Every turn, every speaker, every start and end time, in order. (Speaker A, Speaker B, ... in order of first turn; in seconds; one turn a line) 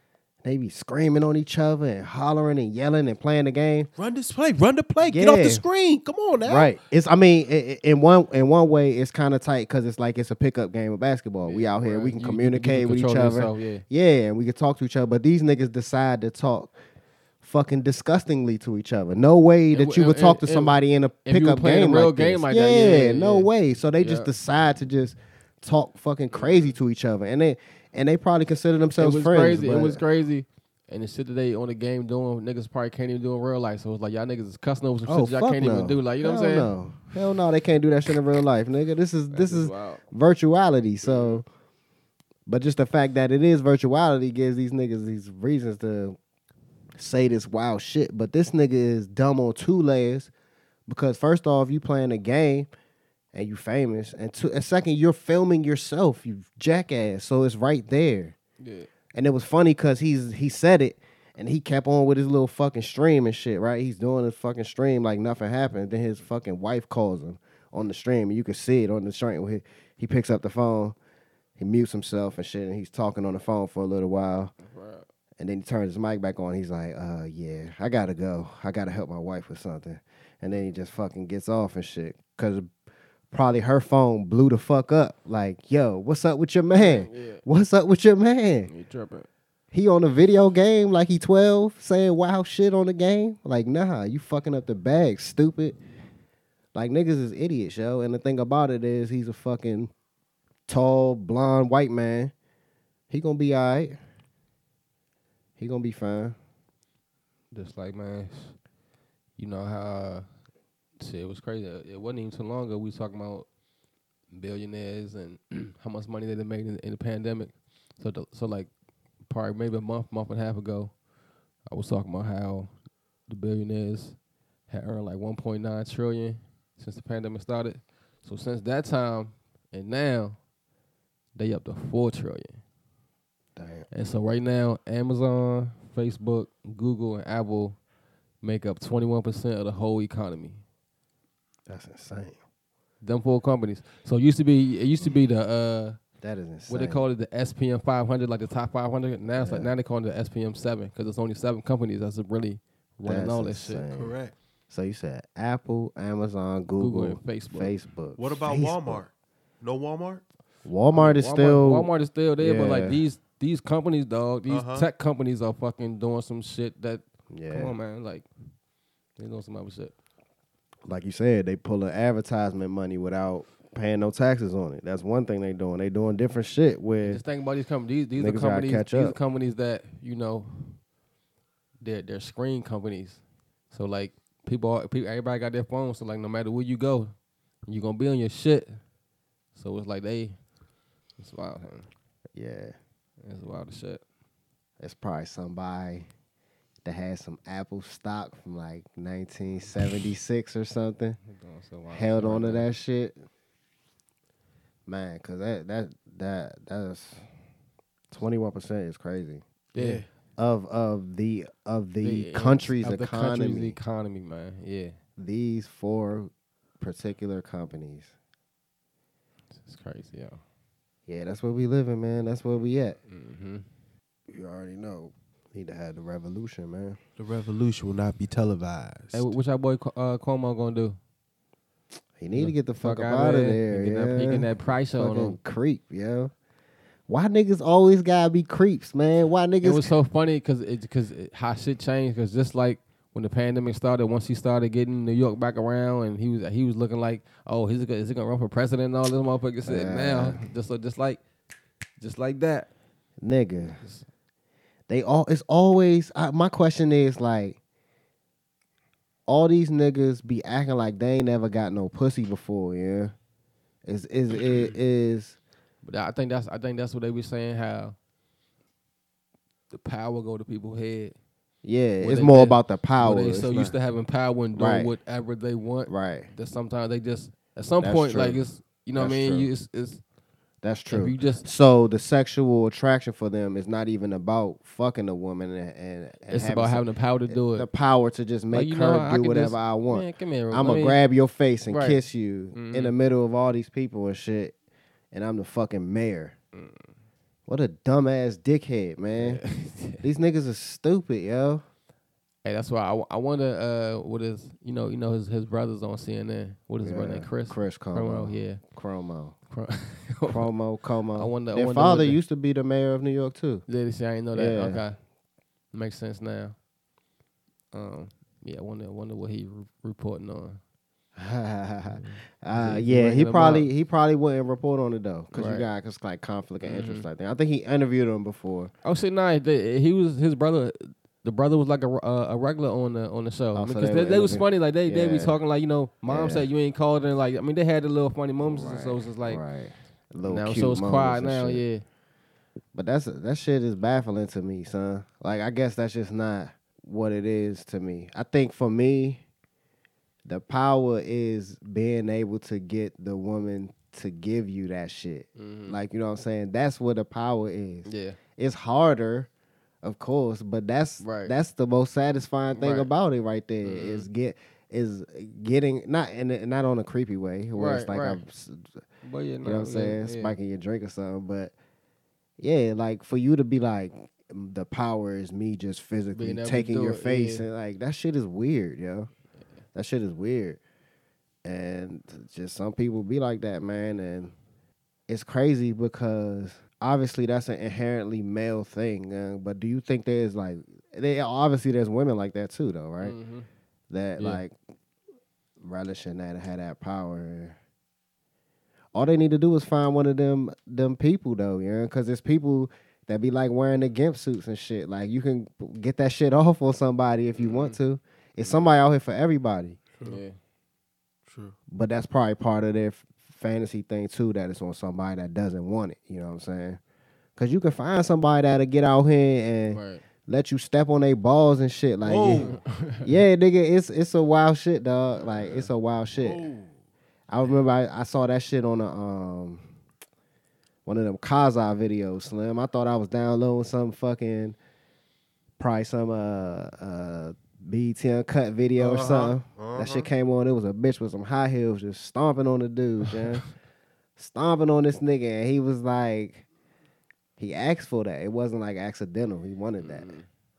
Speaker A: 0.4-3.9
Speaker B: 4.0-6.7
Speaker A: 5.0-5.6
Speaker A: 6.4-16.7
Speaker C: 11.4-13.8
Speaker A: 17.4-30.0
Speaker C: 19.7-24.3
Speaker C: 26.3-26.7
Speaker C: 29.0-36.7
Speaker A: 35.0-41.4
Speaker C: 39.3-40.0
Speaker C: 41.0-41.4
Speaker A: 42.5-46.2
Speaker A: 47.0-50.3
Speaker A: 50.9-52.7
Speaker A: 53.3-58.3
Speaker C: 58.6-58.9
Speaker A: 59.1-70.9
Speaker A: 71.6-74.5
Speaker C: 74.6-75.0
Speaker A: 75.4-82.7
Speaker A: 83.3-88.7
Speaker C: 86.7-87.4
Speaker C: 88.7-89.3
Speaker A: 89.7-95.8
Speaker A: 96.7-99.9
Speaker A: 100.7-102.3
Speaker A: 103.1-104.0
Speaker A: 105.6-106.3
Speaker C: 107.5-108.5
Speaker C: 109.4-110.2
Speaker C: 111.0-113.5
Speaker C: 114.3-118.7
Speaker C: 119.2-120.9
Speaker C: 121.7-122.7
Speaker C: 123.3-124.2
Speaker C: 124.7-130.4
Speaker C: 131.3-132.6
Speaker A: 133.6-133.9
Speaker C: 133.9-137.8
Speaker C: 138.4-140.6
Speaker A: 141.7-142.4
Speaker C: 143.0-146.0
Speaker A: 146.2-147.0
Speaker C: 146.7-153.8
Speaker A: 149.3-149.7
Speaker A: 153.0-154.2
Speaker B: 153.9-154.3
Speaker A: 154.7-159.0
Speaker C: 156.8-157.7
Speaker B: 158.2-160.2
Speaker A: 160.6-163.0
Speaker C: 160.9-168.3
Speaker B: 164.5-164.9
Speaker A: 167.3-167.7
Speaker C: 169.2-169.9
Speaker A: 170.8-177.2
Speaker C: 177.0-180.8
Speaker A: 178.2-179.2
Speaker C: 181.8-187.1
Speaker C: 187.7-188.8
Speaker C: 189.5-190.4
Speaker C: 191.2-191.9
Speaker A: 192.3-192.8
Speaker C: 193.2-194.0
Speaker A: 194.8-196.1
Speaker A: 196.8-201.2
Speaker C: 201.2-202.7
Speaker A: 201.9-203.2
Speaker A: 204.9-207.2
Speaker A: 208.1-209.4
Speaker C: 209.7-210.0
Speaker B: 209.7-210.1
Speaker A: 210.4-213.8
Speaker C: 212.0-215.0
Speaker A: 215.2-218.1
Speaker C: 219.6-220.4
Speaker A: 221.1-223.0
Speaker C: 223.1-223.7
Speaker A: 224.3-227.0
Speaker B: 227.2-229.3
Speaker C: 229.1-231.0
Speaker A: 232.2-236.3
Speaker C: 232.3-235.4
Speaker A: 237.1-239.9
Speaker C: 239.6-251.2
Speaker A: 249.6-250.4
Speaker C: 252.0-252.7
Speaker A: 253.2-253.8
Speaker C: 253.8-254.1
Speaker A: 254.9-257.6
Speaker A: 259.3-263.1
Speaker A: 263.8-265.4
Speaker C: 265.8-267.9
Speaker C: 269.7-271.1
Speaker A: 271.6-273.8
Speaker C: 272.0-280.0
Speaker A: 274.5-274.9
Speaker A: 275.9-276.3
Speaker A: 277.8-279.5
Speaker A: 280.6-294.5
Speaker C: 280.9-281.5
Speaker C: 286.3-287.7
Speaker C: 288.5-291.0
Speaker C: 291.7-292.0
Speaker C: 292.5-292.9
Speaker A: 295.1-296.3
Speaker C: 296.5-296.9
Speaker A: 297.5-299.4
Speaker C: 299.1-300.1
Speaker A: 300.0-301.6
Speaker C: 302.4-308.6
Speaker A: 306.8-309.4
Speaker C: 309.5-310.4
Speaker A: 310.2-313.6
Speaker C: 311.1-312.2
Speaker C: 313.7-315.0
Speaker A: 314.3-314.8
Speaker C: 315.7-316.5
Speaker C: 317.7-320.6
Speaker A: 321.1-328.7
Speaker C: 321.9-323.7
Speaker C: 325.3-325.7
Speaker C: 326.6-327.0
Speaker C: 328.8-339.4
Speaker A: 333.5-335.4
Speaker A: 336.1-336.4
Speaker A: 338.4-341.6
Speaker C: 340.2-341.8
Speaker A: 342.7-349.2
Speaker A: 350.2-359.3
Speaker C: 355.4-355.8
Speaker C: 357.8-358.2
Speaker A: 359.8-368.8
Speaker C: 361.0-361.3
Speaker C: 362.5-362.9
Speaker C: 363.6-364.1
Speaker C: 367.5-368.2
Speaker C: 369.0-370.4
Speaker A: 369.4-371.5
Speaker A: 372.4-379.1
Speaker C: 376.1-377.4
Speaker A: 379.7-380.6
Speaker A: 381.4-384.3
Speaker A: 385.1-393.1
Speaker C: 393.0-393.5
Speaker A: 393.9-394.5
Speaker A: 395.6-397.6
Speaker A: 398.9-409.8
Speaker C: 407.4-407.8
Speaker C: 410.0-410.4
Speaker B: 411.3-411.5
Speaker A: 411.7-416.8
Speaker A: 417.4-422.5
Speaker C: 419.7-420.0
Speaker B: 422.0-422.5
Speaker C: 422.3-423.1
Speaker A: 423.0-426.4
Speaker B: 426.1-426.7
Speaker A: 427.3-429.7
Speaker A: 430.8-434.6
Speaker A: 435.6-443.4
Speaker B: 438.8-440.1
Speaker A: 444.2-446.4
Speaker A: 447.4-450.1
Speaker C: 449.8-450.3